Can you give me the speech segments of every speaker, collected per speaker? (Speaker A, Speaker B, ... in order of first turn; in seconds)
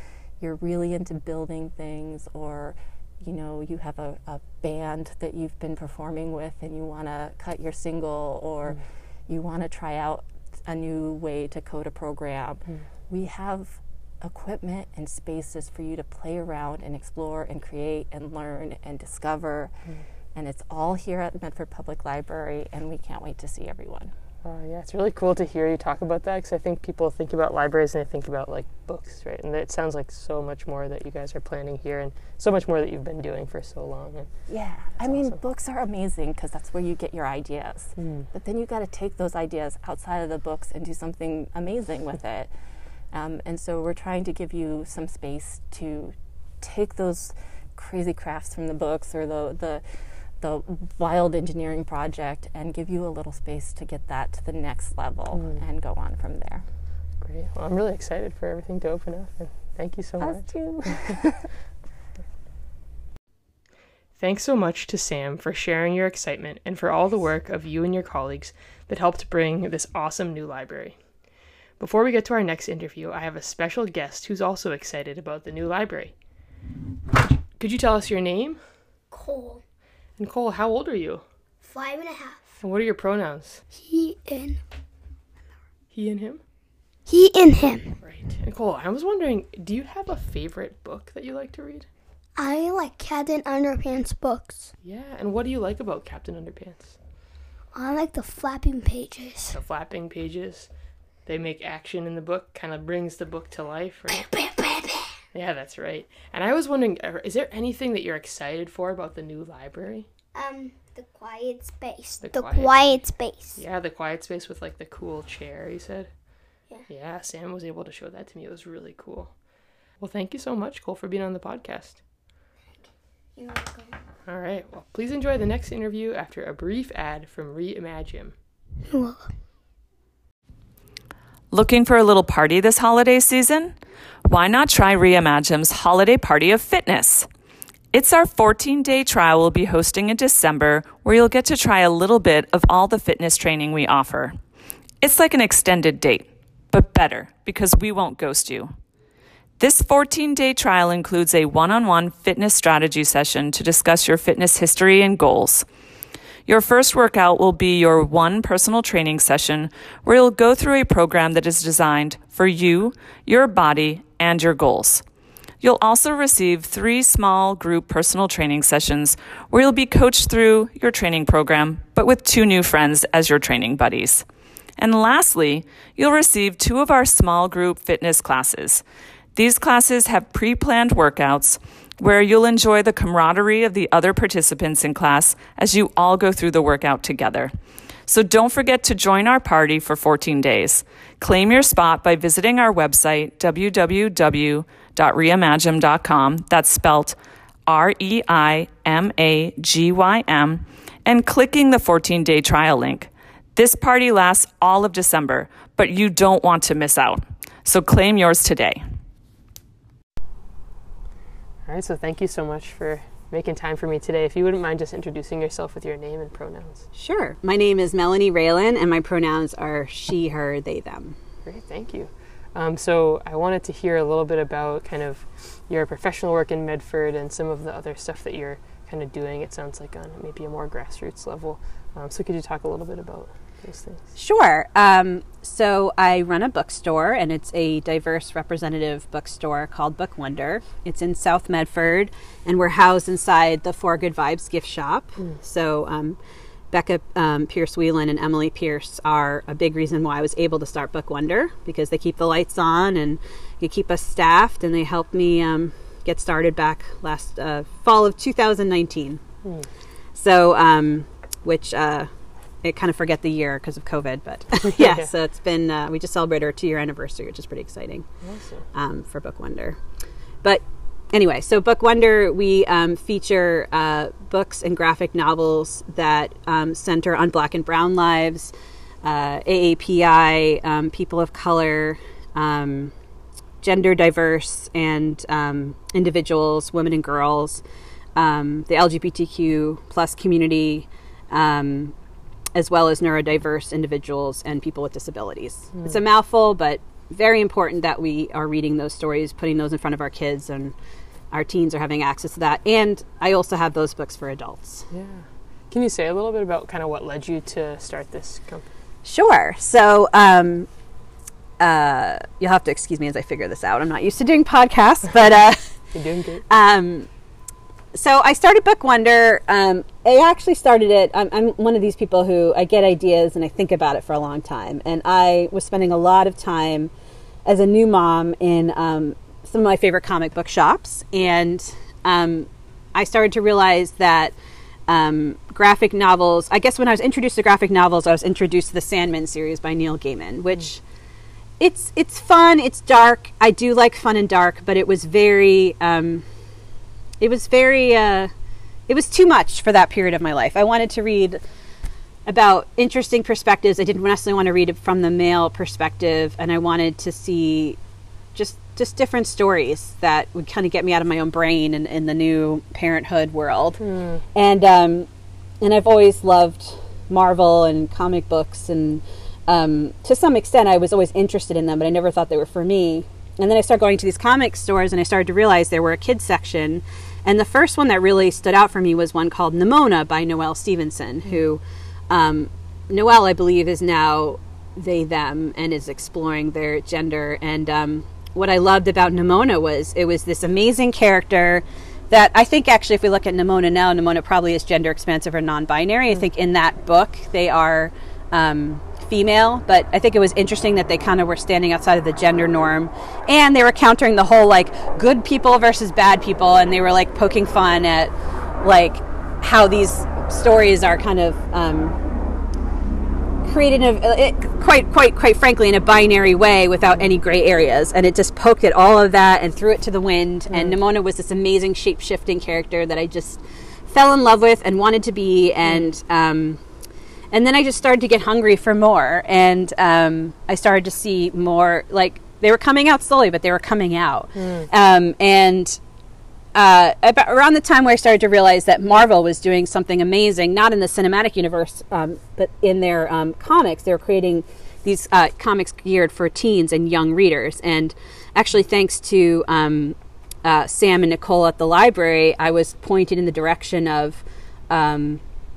Speaker A: 0.4-19.7, 20.3-24.1, 34.5-42.5, 43.1-49.8, 50.4-56.6, 60.2-61.5
Speaker B: 24.4-34.3, 35.0-35.3, 38.0-38.3, 55.3-55.6, 57.2-61.1, 64.2-71.0, 71.8-76.1, 77.5-78.6, 80.2-81.2, 82.6-83.6, 85.9-86.4, 88.0-91.9, 94.8-97.0, 99.5-100.7, 101.2-104.3, 105.3-110.1, 112.2-113.0, 113.5-116.1, 116.9-119.3, 120.0-122.0, 124.2-128.3, 211.7-216.9, 221.4-234.1, 264.8-265.1, 268.2-268.6, 304.9-308.7, 315.9-316.4, 363.8-364.2, 420.5-420.8, 434.4-434.7
Speaker C: 79.1-79.6, 81.6-82.4, 83.7-84.6, 87.1-88.0, 92.4-94.7, 97.7-99.6, 104.1-105.2, 110.3-113.6, 122.8-124.0, 128.9-129.3
Speaker D: 131.5-133.7, 134.3-137.3, 137.9-144.4, 145.0-148.7, 149.6-155.7, 156.5-165.0, 165.6-174.2, 174.8-178.8, 179.3-187.5, 188.1-197.2, 197.7-208.8
Speaker E: 216.9-221.2, 234.2-246.2, 246.7-259.2, 260.1-262.1, 262.6-268.1, 268.7-269.8, 270.4-282.9, 283.6-287.6, 288.2-291.9, 292.6-300.7, 301.3-304.9, 309.1-310.7, 311.6-315.7, 316.5-317.1, 317.9-326.9, 327.4-334.3, 334.9-340.8, 341.6-346.2, 347.2-348.3, 348.9-351.4, 352.3-357.8, 358.4-363.8, 364.3-365.1, 365.6-412.0, 413.4-426.6, 427.3-435.8, 436.5-455.2